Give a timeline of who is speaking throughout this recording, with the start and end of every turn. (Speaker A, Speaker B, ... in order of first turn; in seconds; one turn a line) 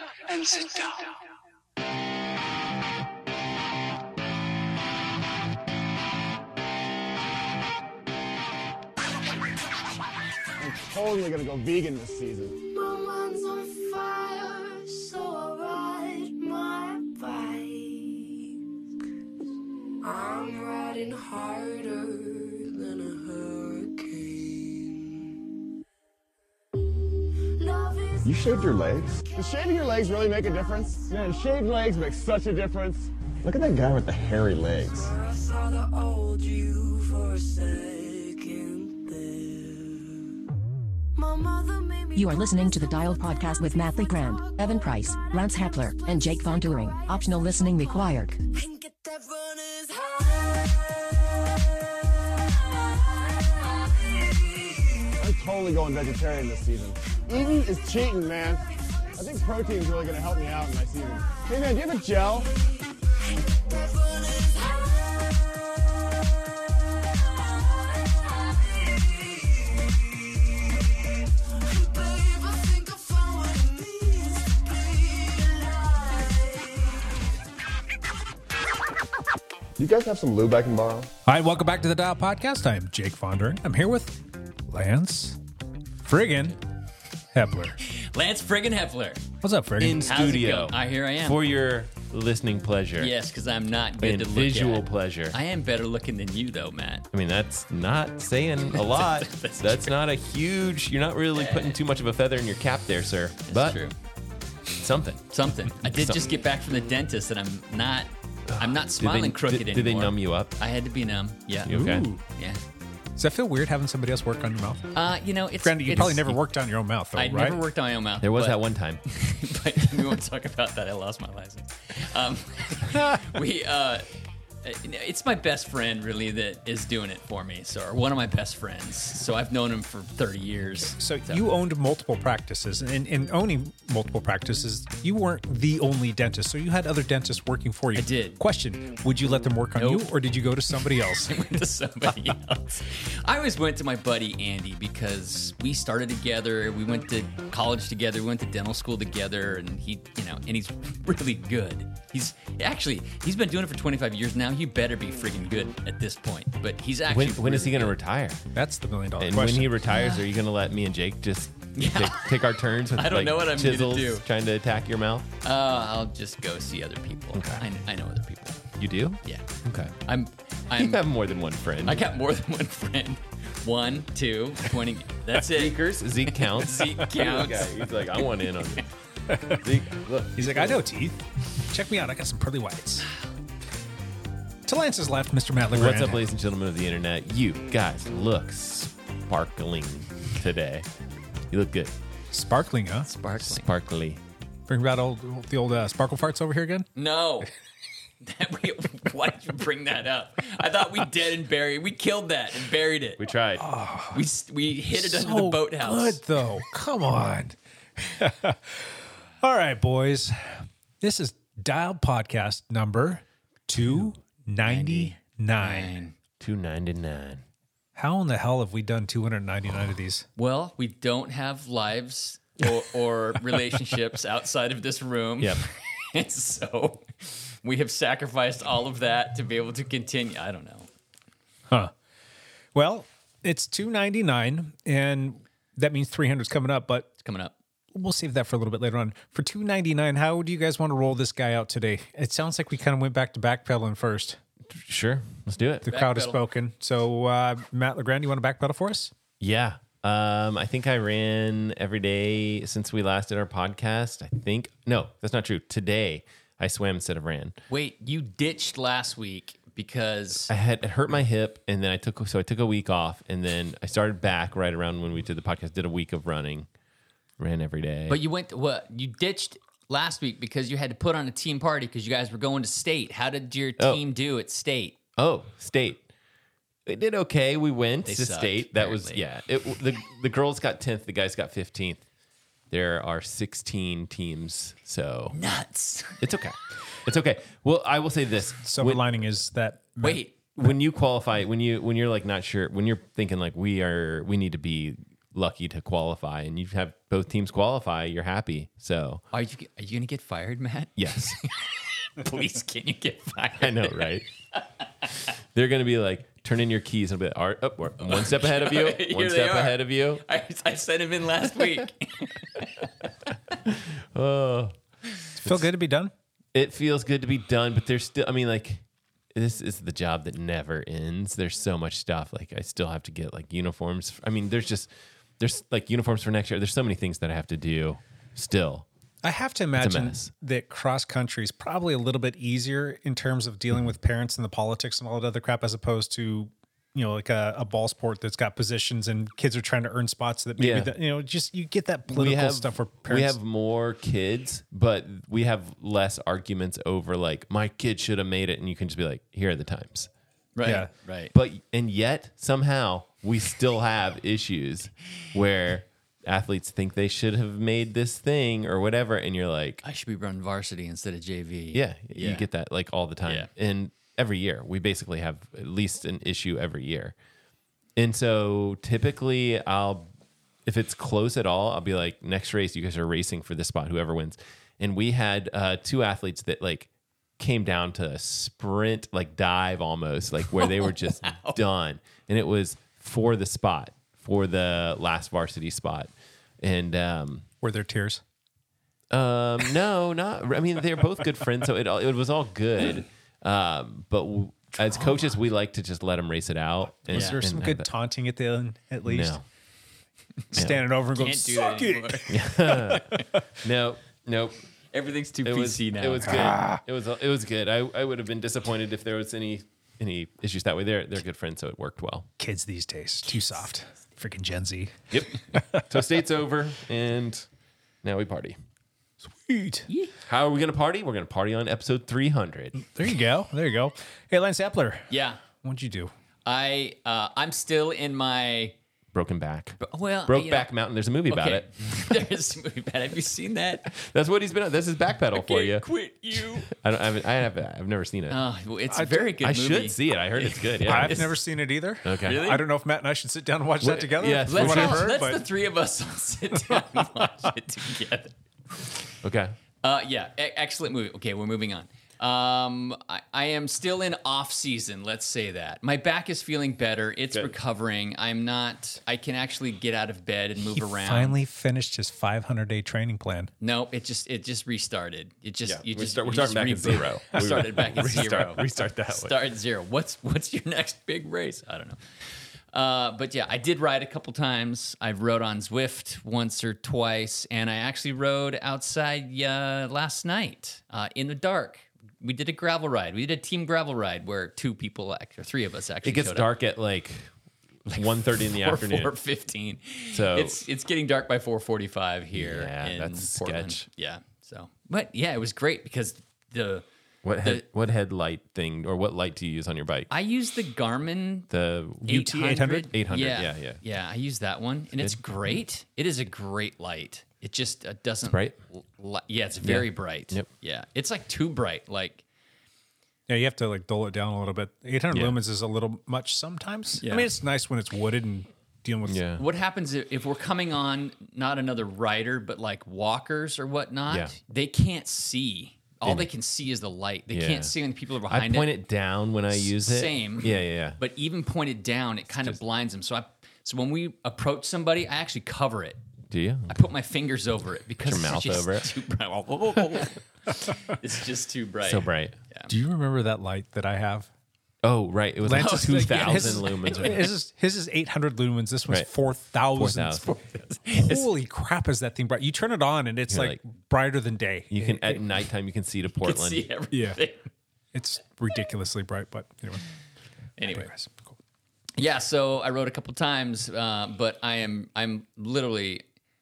Speaker A: 0.3-0.9
Speaker B: 10.6-12.6
Speaker A: 12.6-18.5
Speaker A: 20.0-25.1
Speaker A: 27.6-28.3
Speaker C: 28.2-29.2
Speaker B: 28.3-33.6
Speaker C: 33.4-35.0
Speaker A: 34.9-40.1
Speaker A: 41.1-42.3
Speaker D: 42.1-48.4
Speaker A: 48.5-50.6
Speaker B: 55.2-58.6
Speaker B: 59.1-62.5
Speaker A: 63.2-65.5
Speaker A: 67.6-70.5
Speaker A: 71.6-77.0
Speaker C: 79.8-81.1
Speaker E: 81.3-85.4
Speaker E: 86.0-86.6
Speaker E: 87.3-87.8
Speaker F: 87.9-89.2
Speaker E: 89.4-90.1
Speaker G: 89.8-93.1
Speaker F: 90.1-91.4
Speaker F: 93.0-97.1
Speaker G: 94.0-95.4
Speaker G: 97.1-103.8
Speaker F: 98.7-100.0
Speaker F: 101.3-101.8
Speaker F: 103.5-104.0
Speaker G: 104.8-106.2
Speaker F: 105.3-112.6
Speaker G: 108.5-110.5
Speaker G: 111.7-112.1
Speaker E: 111.7-112.2
Speaker E: 113.2-114.9
Speaker F: 115.0-116.4
Speaker E: 115.6-117.6
Speaker F: 117.2-124.1
Speaker G: 118.2-119.0
Speaker F: 124.6-131.5
Speaker E: 131.0-141.4
Speaker F: 137.9-138.4
Speaker F: 139.8-140.1
Speaker F: 141.0-157.9
Speaker G: 157.1-158.4
Speaker E: 158.5-159.8
Speaker G: 159.2-165.3
Speaker F: 159.9-160.3
Speaker F: 161.8-162.3
Speaker F: 163.0-164.2
Speaker F: 165.4-168.6
Speaker G: 167.3-167.6
Speaker G: 168.8-169.9
Speaker F: 170.1-171.0
Speaker G: 170.8-172.0
Speaker F: 171.8-175.8
Speaker G: 175.4-178.9
Speaker F: 176.3-177.9
Speaker E: 179.3-179.6
Speaker G: 179.5-180.8
Speaker E: 180.4-183.1
Speaker E: 184.7-186.3
Speaker G: 185.7-190.9
Speaker G: 191.5-191.9
Speaker E: 192.3-193.1
Speaker F: 193.1-193.7
Speaker G: 193.4-194.2
Speaker E: 194.7-196.9
Speaker F: 197.0-197.5
Speaker F: 198.2-203.2
Speaker G: 203.2-203.7
Speaker E: 203.6-204.2
Speaker F: 204.1-206.2
Speaker E: 204.9-215.9
Speaker F: 214.6-216.2
Speaker G: 216.4-217.4
Speaker E: 218.0-220.2
Speaker F: 220.4-230.9
Speaker E: 232.7-237.1
Speaker F: 237.2-237.6
Speaker E: 237.9-244.4
Speaker G: 244.7-245.9
Speaker E: 245.8-249.1
Speaker F: 245.9-246.4
Speaker G: 249.4-257.6
Speaker F: 257.7-260.5
Speaker G: 260.5-266.7
Speaker G: 267.4-268.2
Speaker F: 268.1-275.0
Speaker G: 275.2-276.1
Speaker G: 276.9-282.0
Speaker F: 278.1-279.2
Speaker G: 282.7-285.4
Speaker F: 285.3-286.2
Speaker G: 286.2-289.1
Speaker E: 288.6-290.2
Speaker F: 290.0-290.3
Speaker G: 290.6-299.2
Speaker F: 299.3-304.2
Speaker G: 301.0-301.4
Speaker G: 303.6-304.3
Speaker G: 305.5-310.2
Speaker F: 308.0-312.9
Speaker G: 313.6-314.8
Speaker G: 315.4-315.6
Speaker E: 315.4-316.1
Speaker G: 316.5-318.8
Speaker G: 319.3-328.9
Speaker E: 329.2-343.4
Speaker G: 329.8-330.3
Speaker G: 340.6-340.9
Speaker G: 342.1-350.1
Speaker F: 350.6-351.3
Speaker E: 350.6-350.9
Speaker G: 351.3-359.8
Speaker F: 359.8-362.5
Speaker G: 361.7-367.1
Speaker F: 363.2-363.5
Speaker G: 368.0-370.1
Speaker G: 370.7-386.1
Speaker F: 380.6-381.6
Speaker G: 386.6-387.5
Speaker E: 387.6-388.2
Speaker G: 389.1-397.9
Speaker F: 394.8-395.4
Speaker E: 397.1-399.4
Speaker F: 397.1-397.4
Speaker G: 399.1-399.4
Speaker E: 400.5-403.4
Speaker G: 400.6-400.8
Speaker F: 401.2-403.2
Speaker G: 402.3-404.6
Speaker F: 404.9-406.4
Speaker G: 405.4-412.3
Speaker E: 406.3-406.8
Speaker E: 412.4-416.1
Speaker G: 415.1-417.5
Speaker G: 418.0-418.6
Speaker E: 419.2-419.9
Speaker F: 419.9-420.1
Speaker G: 420.2-422.8
Speaker E: 422.8-426.1
Speaker F: 425.1-425.4
Speaker F: 426.5-428.8
Speaker G: 429.1-432.2
Speaker F: 429.8-430.7
Speaker F: 431.3-433.9
Speaker G: 433.9-435.9
Speaker F: 435.4-436.7
Speaker G: 436.7-438.4
Speaker F: 438.3-441.3
Speaker E: 438.9-439.3
Speaker G: 439.4-441.3
Speaker E: 440.9-445.4
Speaker G: 442.1-442.4
Speaker F: 442.2-442.6
Speaker G: 443.8-445.1
Speaker F: 444.5-449.0
Speaker E: 446.7-447.3
Speaker G: 449.2-449.5
Speaker F: 449.8-461.4
Speaker E: 460.7-463.5
Speaker F: 463.6-472.0
Speaker G: 465.7-469.4
Speaker F: 472.7-486.5
Speaker G: 486.0-487.3
Speaker F: 487.9-496.9
Speaker G: 487.9-489.1
Speaker G: 490.1-490.6
Speaker G: 492.3-493.9
Speaker G: 497.2-500.1
Speaker F: 500.1-501.5
Speaker G: 501.5-502.2
Speaker E: 502.1-502.9
Speaker F: 502.1-512.2
Speaker G: 502.9-503.8
Speaker G: 509.6-510.5
Speaker E: 513.3-519.2
Speaker G: 515.1-515.4
Speaker F: 517.0-517.3
Speaker G: 519.1-519.4
Speaker F: 519.4-528.7
Speaker G: 524.1-524.4
Speaker G: 526.0-526.3
Speaker G: 527.3-527.7
Speaker G: 528.3-531.0
Speaker F: 529.5-536.0
Speaker G: 532.3-532.6
Speaker G: 536.3-536.7
Speaker F: 536.7-542.7
Speaker G: 538.0-538.9
Speaker G: 541.9-542.4
Speaker E: 542.7-544.3
Speaker G: 544.8-547.3
Speaker E: 545.4-550.3
Speaker F: 545.5-547.2
Speaker G: 549.8-550.3
Speaker F: 550.2-551.3
Speaker E: 551.0-555.2
Speaker G: 553.3-553.6
Speaker G: 554.7-556.6
Speaker F: 556.2-557.5
Speaker E: 556.9-557.2
Speaker E: 557.9-559.8
Speaker F: 560.6-560.9
Speaker E: 560.6-561.4
Speaker F: 562.0-566.0